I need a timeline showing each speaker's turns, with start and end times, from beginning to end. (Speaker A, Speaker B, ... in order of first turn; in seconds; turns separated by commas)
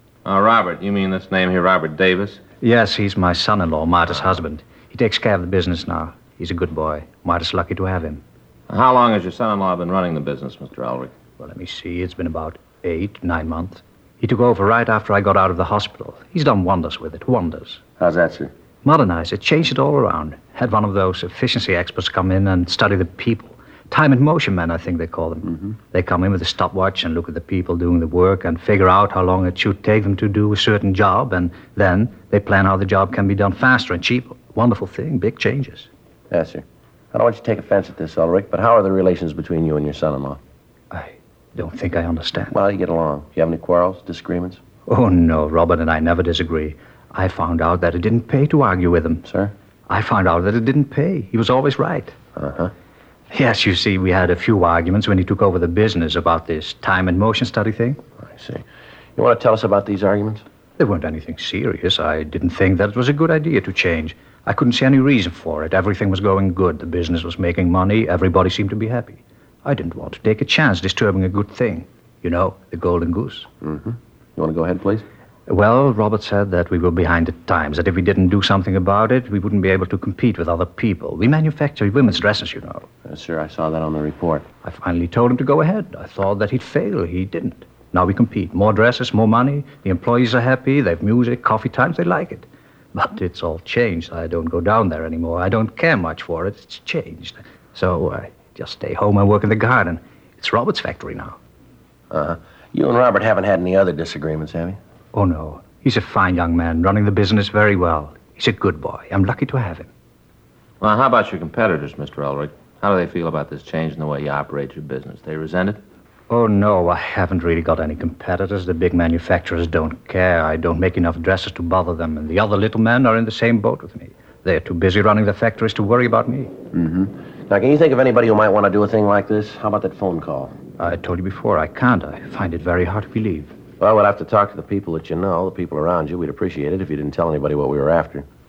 Speaker A: 0.2-2.4, Speaker B: 2.6-8.2, Speaker A: 8.7-11.1, Speaker B: 11.4-17.8, Speaker C: 18.0-18.5, Speaker B: 18.8-35.9, Speaker C: 36.3-40.4, Speaker B: 40.9-42.6, Speaker C: 42.5-44.6, Speaker B: 44.9-49.2, Speaker C: 49.2-49.5, Speaker B: 49.9-52.1, Speaker C: 52.4-52.7, Speaker B: 53.3-58.0, Speaker C: 58.2-58.6, Speaker C: 59.2-60.4, Speaker B: 60.8-73.5, Speaker C: 73.6-75.0, Speaker B: 75.5-82.9, Speaker C: 83.0-84.5, Speaker B: 84.6-101.4, Speaker C: 102.1-104.8, Speaker B: 105.1-109.9, Speaker A: 110.8-115.8, Speaker B: 116.3-126.5, Speaker C: 126.7-130.5, Speaker B: 130.8-133.5, Speaker C: 133.8-138.2